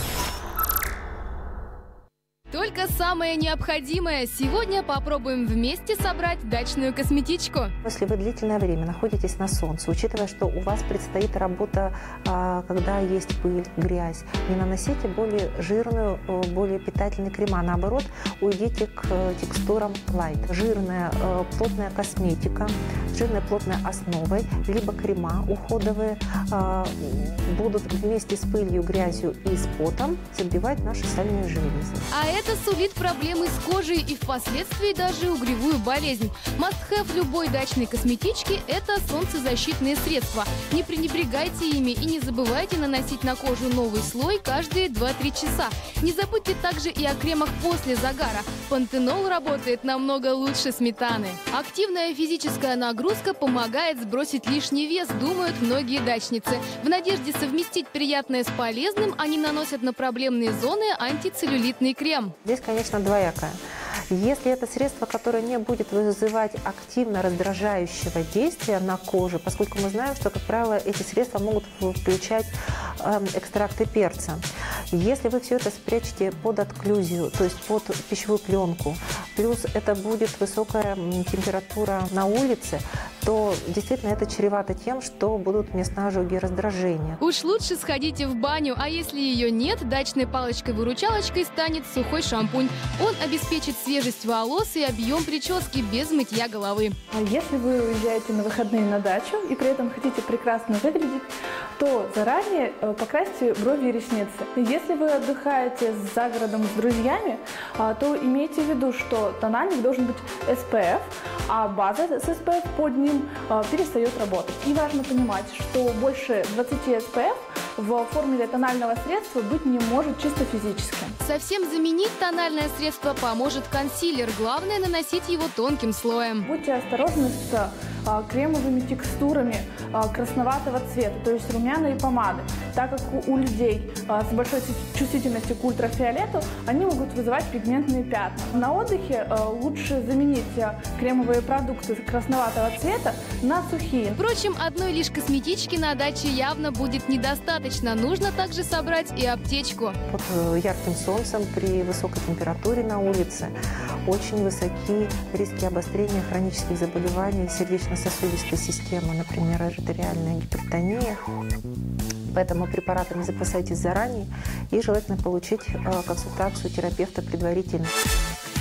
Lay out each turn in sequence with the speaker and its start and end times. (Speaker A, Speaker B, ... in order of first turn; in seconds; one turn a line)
Speaker A: 2.5-7.7
Speaker B: 7.8-32.0
Speaker A: 32.1-62.3
Speaker B: 62.4-63.6
Speaker B: 64.1-87.2
Speaker A: 87.2-96.9
Speaker C: 97.1-121.2
Speaker A: 121.2-126.5
Speaker C: 126.4-144.2
Speaker A: 144.2-150.0
Speaker B: 150.1-153.5
Speaker B: 154.0-161.2
Speaker B: 162.3-167.9